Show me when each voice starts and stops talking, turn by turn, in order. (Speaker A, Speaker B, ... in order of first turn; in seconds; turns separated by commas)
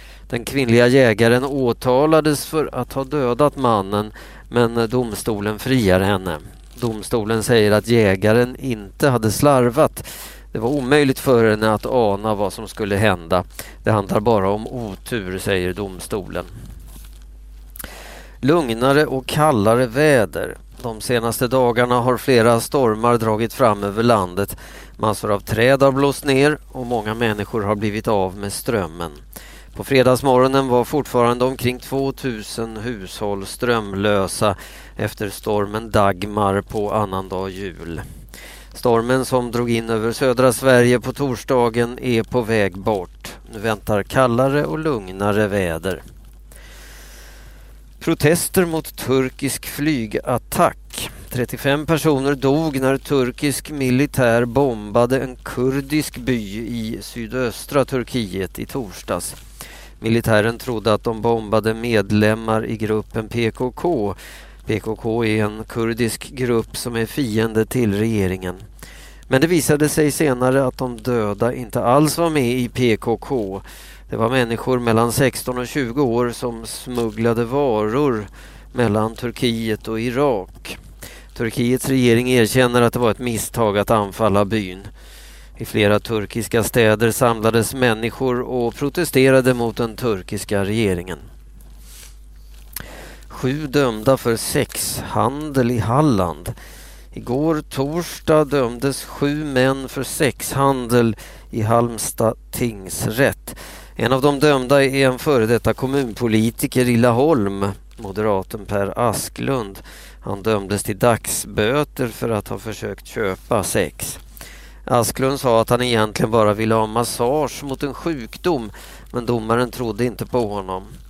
Speaker A: 0.3-16.5, Speaker A: 18.4-29.2, Speaker A: 29.7-38.0, Speaker A: 38.7-46.0, Speaker A: 48.0-59.4, Speaker A: 60.0-68.6, Speaker A: 69.3-80.8, Speaker A: 81.3-84.9, Speaker A: 85.6-91.2, Speaker A: 93.3-96.5, Speaker A: 97.1-114.2, Speaker A: 114.9-120.9